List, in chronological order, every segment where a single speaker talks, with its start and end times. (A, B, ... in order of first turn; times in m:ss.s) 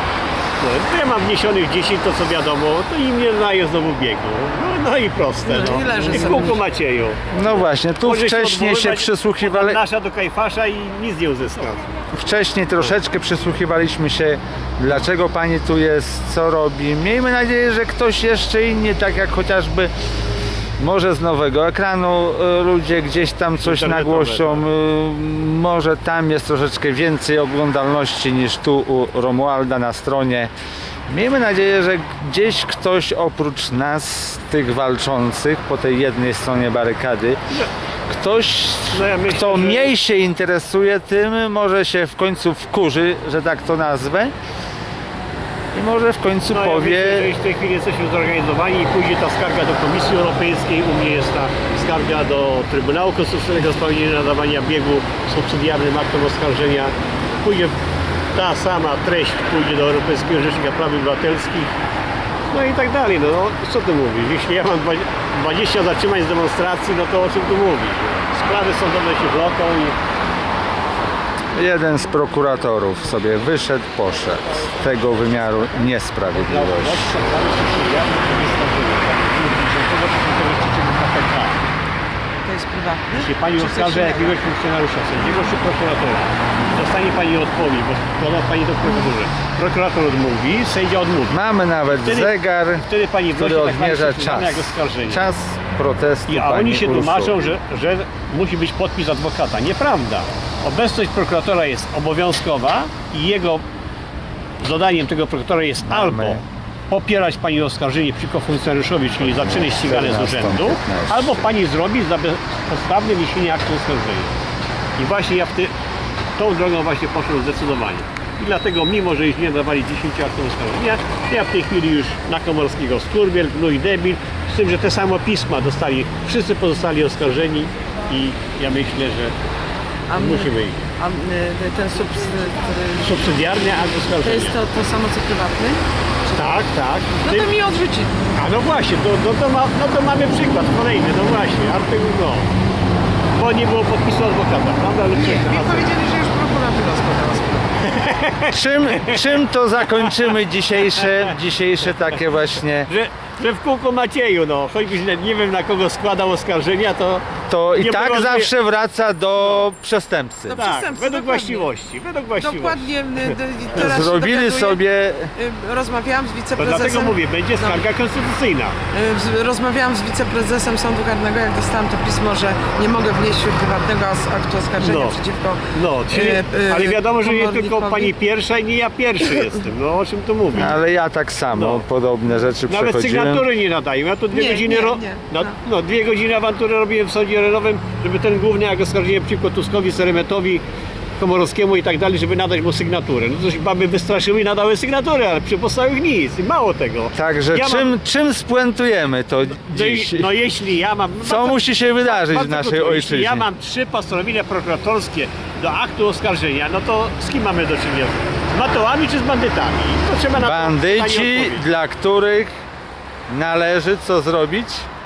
0:00.6-0:11.9 A
0:05.4-0:06.6 B
0:07.3-0:09.8 C
0:12.1-0:19.9 C
0:20.8-0:30.5 C
0:23.6-0:24.7 A
0:31.1-0:37.4 C
0:38.1-0:44.3 C
0:38.9-0:39.9 A
0:45.7-0:47.3 C
0:46.5-0:57.7 A
0:58.3-1:01.7 A
1:02.5-1:10.0 A
1:11.6-1:17.2 C
1:16.4-1:21.6 A
1:22.4-1:24.4 B
1:23.1-1:35.2 A
1:31.3-1:37.5 C
1:36.3-1:43.6 A
1:44.6-1:54.4 A
1:45.9-1:46.4 C
1:49.2-1:51.5 C
1:55.0-1:55.7 A
1:56.4-2:09.3 A
2:10.1-2:13.3 B
2:10.1-2:10.9 A
2:13.0-2:14.6 A
2:14.2-2:16.5 B
2:16.3-2:17.5 A
2:17.2-2:18.2 B
2:18.3-2:22.5 A
2:23.3-2:25.9 A
2:25.1-2:27.8 B
2:27.8-2:30.3 A
2:28.5-2:32.9 C
2:30.8-2:31.3 A
2:32.8-2:37.2 A
2:37.5-2:40.6 C
2:37.8-2:38.5 A
2:40.5-2:41.7 B
2:40.5-2:43.3 A
2:42.4-2:44.8 B
2:43.7-2:45.3 C
2:45.3-2:47.8 B
2:46.6-2:48.8 A
2:48.9-2:58.1 B
2:54.8-2:55.2 A
2:55.7-3:00.8 A
3:00.5-3:03.4 C
3:01.5-3:01.8 A
3:02.7-3:10.6 A
3:04.3-3:05.5 B
3:11.2-3:17.9 A
3:17.1-3:20.3 C
3:19.6-3:31.7 A
3:21.2-3:23.5 C
3:30.3-3:32.5 C
3:33.3-3:34.9 C